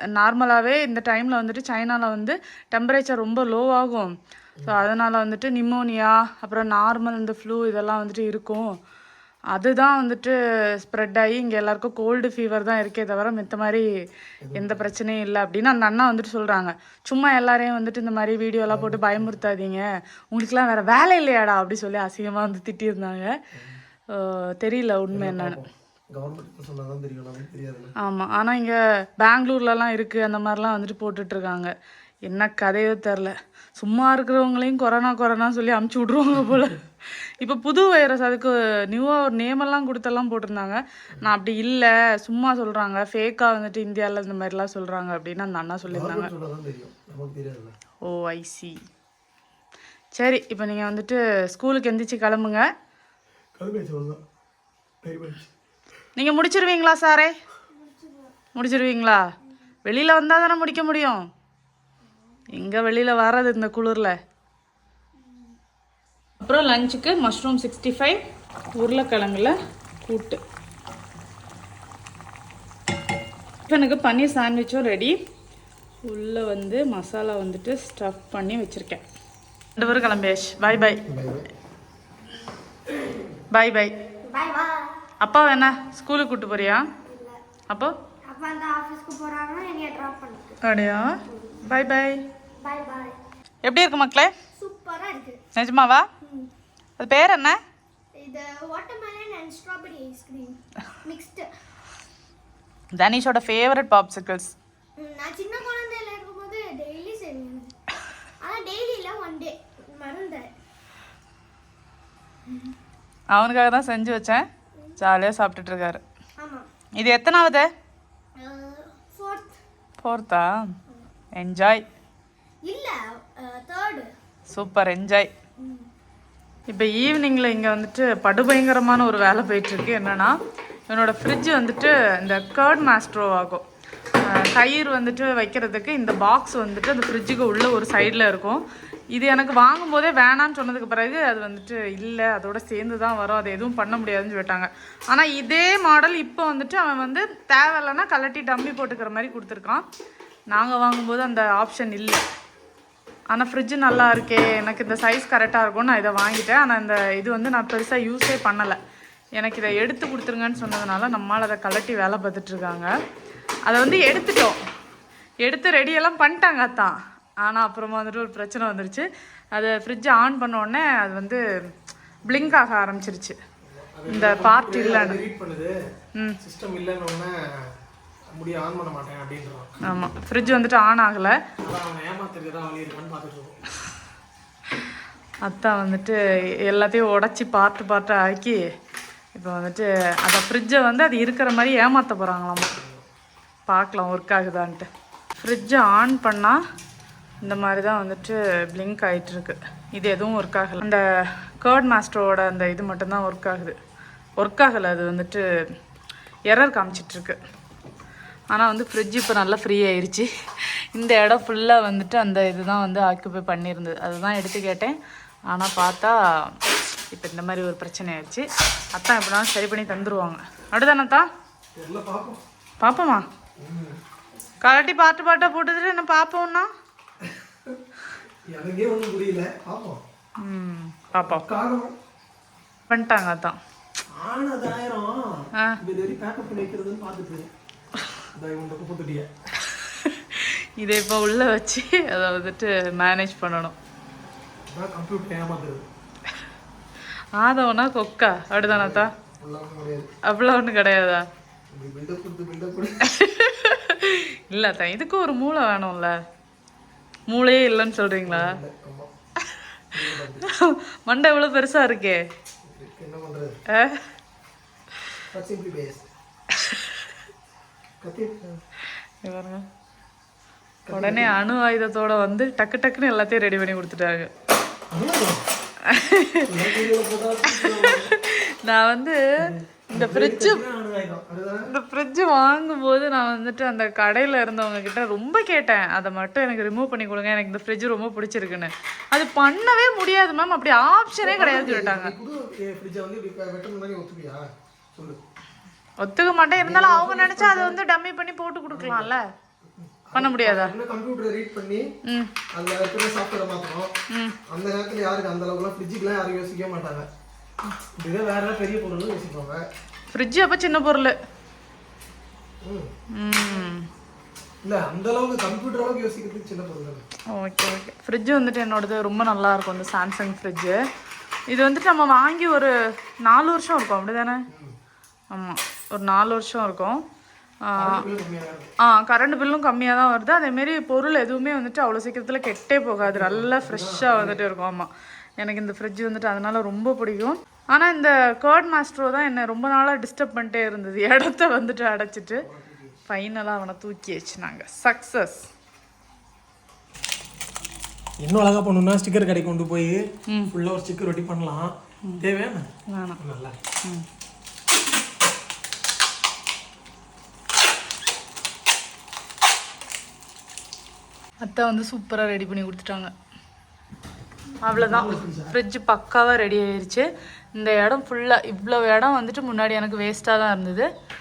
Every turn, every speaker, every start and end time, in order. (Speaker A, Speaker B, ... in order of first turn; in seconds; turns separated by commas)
Speaker A: 0.1-8.8, Speaker A: 9.5-13.9, Speaker B: 14.4-14.9, Speaker A: 14.5-23.4, Speaker B: 18.7-19.4, Speaker B: 23.5-23.8, Speaker A: 24.1-25.6, Speaker B: 25.1-27.9, Speaker A: 28.0-31.7, Speaker A: 32.3-46.3, Speaker B: 45.9-47.7, Speaker A: 48.0-48.8, Speaker A: 50.1-52.7, Speaker B: 53.6-54.2, Speaker B: 55.0-55.5, Speaker A: 56.2-57.3, Speaker C: 57.7-58.3, Speaker A: 58.5-59.2, Speaker A: 59.8-61.3, Speaker A: 62.5-64.2, Speaker C: 65.2-65.5, Speaker A: 66.4-68.2, Speaker A: 68.8-70.4, Speaker A: 73.7-75.2, Speaker A: 76.0-79.0, Speaker A: 79.8-81.0, Speaker B: 81.0-81.5, Speaker A: 83.5-83.9, Speaker C: 84.3-85.0, Speaker A: 85.2-86.8, Speaker C: 87.0-87.4, Speaker C: 88.3-90.6, Speaker A: 90.6-92.2, Speaker C: 92.6-93.2, Speaker A: 93.6-94.3, Speaker C: 94.6-95.4, Speaker A: 95.5-96.1, Speaker C: 96.2-96.5, Speaker A: 97.0-97.6, Speaker C: 98.2-101.5, Speaker A: 102.9-104.6, Speaker C: 105.0-107.7, Speaker C: 108.4-110.5, Speaker A: 113.3-114.5, Speaker A: 115.0-116.0, Speaker C: 116.4-116.7, Speaker A: 117.0-117.7, Speaker C: 118.4-119.6, Speaker A: 120.0-120.8, Speaker A: 121.3-121.8, Speaker C: 122.7-124.1, Speaker A: 124.5-125.3, Speaker C: 125.6-125.9, Speaker A: 126.7-130.3, Speaker A: 130.9-133.6, Speaker A: 134.2-149.8, Speaker A: 150.5-152.2, Speaker A: 153.3-158.8, Speaker A: 159.4-162.9, Speaker A: 163.7-164.6, Speaker A: 165.4-171.4, Speaker A: 172.2-173.4, Speaker B: 172.3-172.6, Speaker B: 173.6-175.8, Speaker A: 174.1-175.2, Speaker A: 176.2-176.4, Speaker B: 176.4-177.7, Speaker B: 178.3-179.7, Speaker A: 179.8-181.4, Speaker B: 181.6-183.6, Speaker A: 185.4-188.6, Speaker A: 189.3-192.8, Speaker B: 192.8-193.0, Speaker A: 193.7-196.6, Speaker A: 197.4-203.8, Speaker A: 204.4-205.5, Speaker A: 206.5-207.4, Speaker A: 208.5-215.0, Speaker A: 215.5-216.6, Speaker A: 217.1-221.3, Speaker B: 221.8-222.4, Speaker A: 222.8-223.3, Speaker B: 223.6-224.0, Speaker A: 224.6-226.7, Speaker B: 227.5-227.8, Speaker B: 228.5-230.0, Speaker A: 230.4-231.5, Speaker B: 231.2-231.9, Speaker A: 232.9-233.6, Speaker B: 234.1-237.5, Speaker B: 238.3-239.3, Speaker A: 239.6-243.8, Speaker B: 244.7-245.8, Speaker A: 247.3-249.1, Speaker B: 248.6-250.1, Speaker A: 250.3-251.2, Speaker B: 251.7-253.1, Speaker A: 253.0-256.2, Speaker A: 257.3-258.6, Speaker B: 258.2-259.1, Speaker B: 259.9-260.5, Speaker A: 260.4-262.2, Speaker B: 262.6-263.5, Speaker A: 263.7-264.1, Speaker B: 265.2-266.1, Speaker B: 268.0-268.6, Speaker A: 269.2-269.6, Speaker B: 270.9-271.4, Speaker A: 270.9-274.3, Speaker B: 274.9-275.4, Speaker A: 275.8-276.8, Speaker B: 276.5-278.1, Speaker A: 277.5-280.6, Speaker B: 279.4-281.7, Speaker A: 281.7-292.1, Speaker B: 291.2-295.2, Speaker A: 296.0-299.2, Speaker B: 296.6-297.8, Speaker B: 298.7-299.1, Speaker B: 299.8-301.9, Speaker A: 300.1-300.8, Speaker A: 302.1-302.3, Speaker B: 302.5-303.9, Speaker A: 304.1-304.4, Speaker B: 304.4-307.1, Speaker B: 308.0-309.6, Speaker A: 310.1-311.2, Speaker B: 312.6-312.9, Speaker A: 313.1-313.9, Speaker B: 314.6-317.0, Speaker A: 317.3-320.8, Speaker A: 321.5-324.4, Speaker B: 324.5-324.8, Speaker A: 325.3-327.0, Speaker A: 327.7-328.1, Speaker B: 327.8-328.7, Speaker A: 328.8-342.4, Speaker B: 333.0-334.4, Speaker B: 342.4-343.0, Speaker A: 343.1-345.5, Speaker B: 348.2-350.0, Speaker A: 350.3-350.5, Speaker B: 350.5-352.7, Speaker A: 352.9-353.2, Speaker B: 353.2-353.6, Speaker A: 361.4-363.1, Speaker A: 364.6-370.9, Speaker B: 364.7-365.5